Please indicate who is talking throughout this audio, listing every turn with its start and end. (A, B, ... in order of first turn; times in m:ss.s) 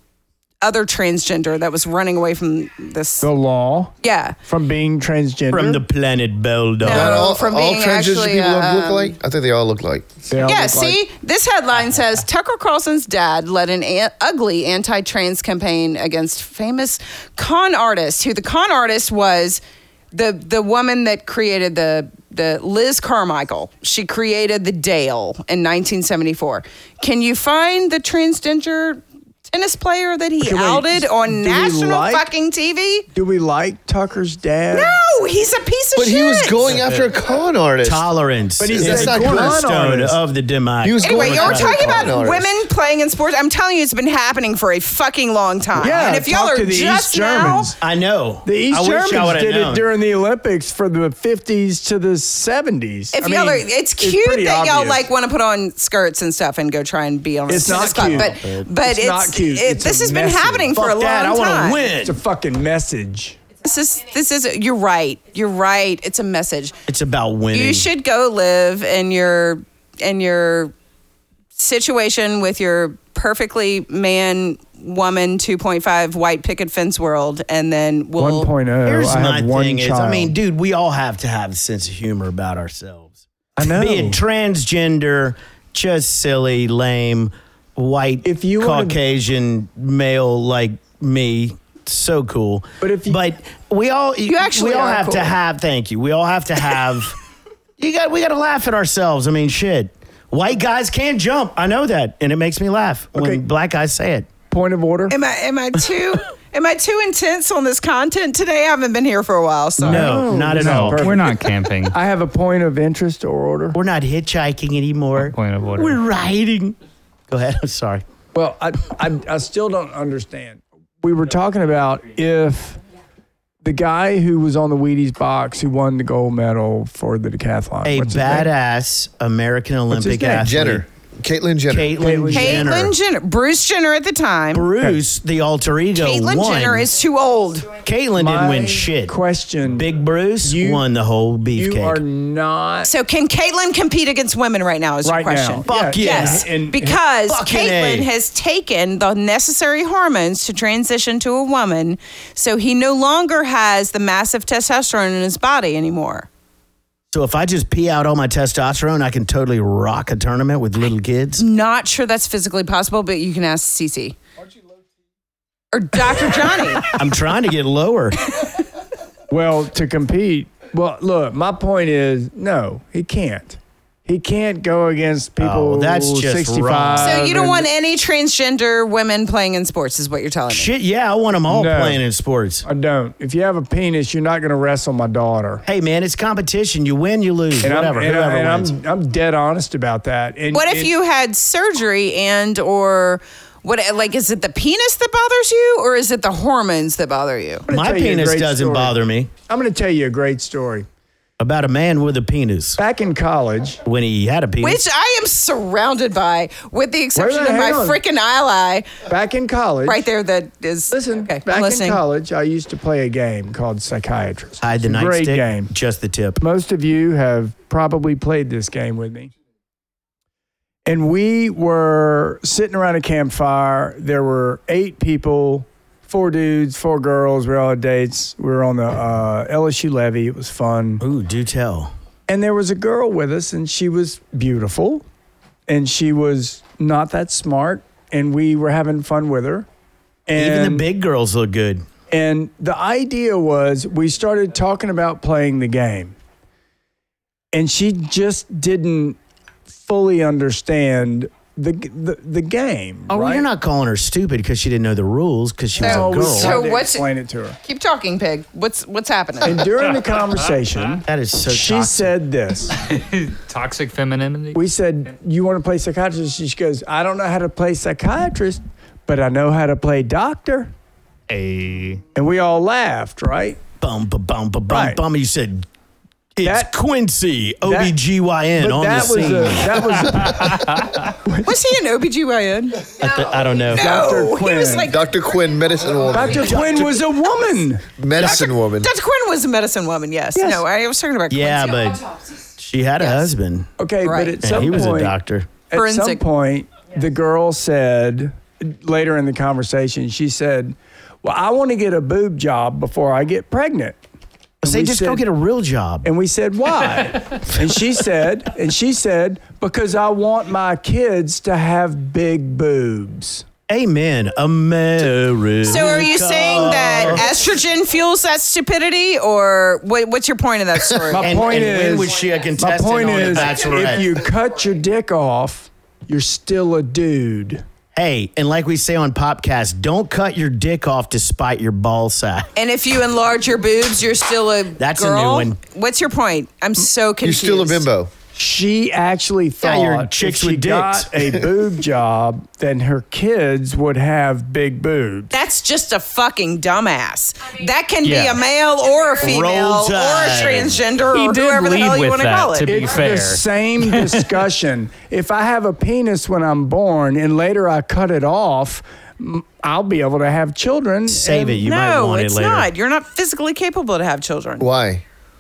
0:00.6-0:03.3 A
0:03.2-0:03.9 B
0:04.0-0:04.4 A
0:04.4-0:05.8 B
0:05.5-0:07.3 C
0:06.8-0:09.1 A
0:06.8-0:10.2 D
0:10.3-0:11.0 B
0:10.4-0:19.6 A
0:20.1-0:33.0 A
0:30.4-0:32.2 B
0:33.1-0:34.9 B
0:34.7-0:36.7 A
0:36.0-0:38.1 D
0:37.8-0:42.0 C
0:38.6-0:40.2 B
0:38.7-0:39.6 D
0:40.8-0:42.5 D
0:41.0-0:47.7 A
0:45.8-0:47.7 B
0:47.8-0:49.9 C
0:48.4-0:55.1 B
0:53.1-1:01.9 A
0:57.5-1:00.7 B
0:57.9-0:58.7 C
1:00.7-1:02.2 C
1:02.0-1:03.4 B
1:03.6-1:06.7 A
1:06.9-1:07.9 C
1:07.5-1:10.7 A
1:11.6-1:18.5 A
1:18.2-1:20.3 B
1:18.8-1:37.2 C
1:23.6-1:24.2 B
1:28.2-1:29.0 B
1:32.8-1:33.2 B
1:34.3-1:35.3 A
1:37.8-1:44.3 C
1:43.1-1:43.4 B
1:44.5-1:45.2 B
1:45.1-1:50.1 A
1:49.8-1:51.2 C
1:49.8-1:51.4 B
1:50.6-1:51.9 E
1:51.9-1:53.8 B
1:53.7-1:56.8 C
1:55.2-1:56.0 E
1:57.3-1:58.0 C
1:58.3-2:02.8 B
2:03.6-2:08.5 B
2:07.8-2:10.8 C
2:09.9-2:10.5 B
2:10.4-2:12.0 D
2:11.7-2:12.9 C
2:12.0-2:12.7 B
2:12.3-2:14.7 A
2:14.5-2:16.9 C
2:15.9-2:17.8 A
2:17.8-2:22.0 C
2:18.1-2:20.9 B
2:21.5-2:22.9 B
2:22.8-2:36.3 A
2:25.0-2:27.0 B
2:25.6-2:26.5 C
2:27.3-2:28.1 C
2:37.1-2:41.4 C
2:41.4-2:44.2 A
2:45.7-2:46.9 A
2:46.9-2:48.2 C
2:49.3-2:57.6 B
2:55.4-2:57.2 C
2:57.0-3:00.7 A
3:00.5-3:02.6 C
3:01.5-3:02.0 B
3:02.6-3:05.6 B
3:05.6-3:08.7 C
3:07.6-3:10.9 B
3:10.5-3:17.6 A
3:17.6-3:20.9 B
3:17.7-3:19.3 C
3:21.4-3:22.8 C
3:22.8-3:23.8 B
3:23.8-3:24.8 C
3:24.6-3:28.9 A
3:27.1-3:28.0 B
3:29.0-3:30.0 B
3:29.8-3:32.0 A
3:30.9-3:35.7 B
3:34.6-3:36.4 C
3:36.4-3:39.3 B
3:40.9-3:51.0 B
3:51.0-3:51.9 C
3:52.3-3:55.0 B
3:55.7-3:59.6 B
4:00.3-4:00.9 B
4:00.3-4:01.8 C
4:02.1-4:06.1 B
4:07.5-4:09.2 B
4:09.8-4:13.4 B
4:13.1-4:16.6 C
4:15.8-4:17.6 B
4:15.8-4:17.0 A
4:17.6-4:19.6 A
4:19.4-4:22.8 B
4:21.0-4:22.1 C
4:22.8-4:24.6 E
4:24.5-4:30.7 B
4:31.3-4:32.0 E
4:32.1-4:33.6 B
4:33.8-4:35.7 C
4:34.7-4:35.0 B
4:36.4-4:40.1 C
4:36.4-4:36.7 B
4:37.6-4:37.9 B
4:38.6-4:41.6 B
4:40.3-4:40.9 E
4:41.4-4:42.9 A
4:42.9-4:44.0 C
4:43.7-4:45.0 A
4:43.7-4:44.9 B
4:44.9-4:46.9 D
4:46.1-4:47.9 B
4:46.4-4:46.9 C
4:48.0-4:48.9 D
4:48.2-4:52.0 A
4:50.4-4:50.6 B
4:51.3-4:53.7 C
4:53.0-4:53.3 A
4:53.8-4:55.2 B
4:54.0-4:54.4 A
4:54.4-4:55.5 C
4:55.7-5:04.0 B
4:55.7-4:56.2 A
5:04.6-5:05.2 B
5:04.6-5:06.1 C
5:06.0-5:13.4 B
5:13.7-5:17.3 C
5:15.6-5:21.4 A
5:21.1-5:27.6 B
5:21.2-5:24.1 C
5:28.0-5:32.5 C
5:32.6-5:37.9 A
5:34.8-5:35.6 C
5:37.2-5:38.1 D
5:38.3-5:45.3 B
5:39.6-5:41.3 C
5:45.3-5:52.9 A
5:48.0-5:48.4 E
5:49.2-5:50.8 C
5:51.1-5:54.1 E
5:52.6-6:01.5 B
6:01.1-6:02.7 C
6:01.5-6:04.7 A
6:04.6-6:05.0 D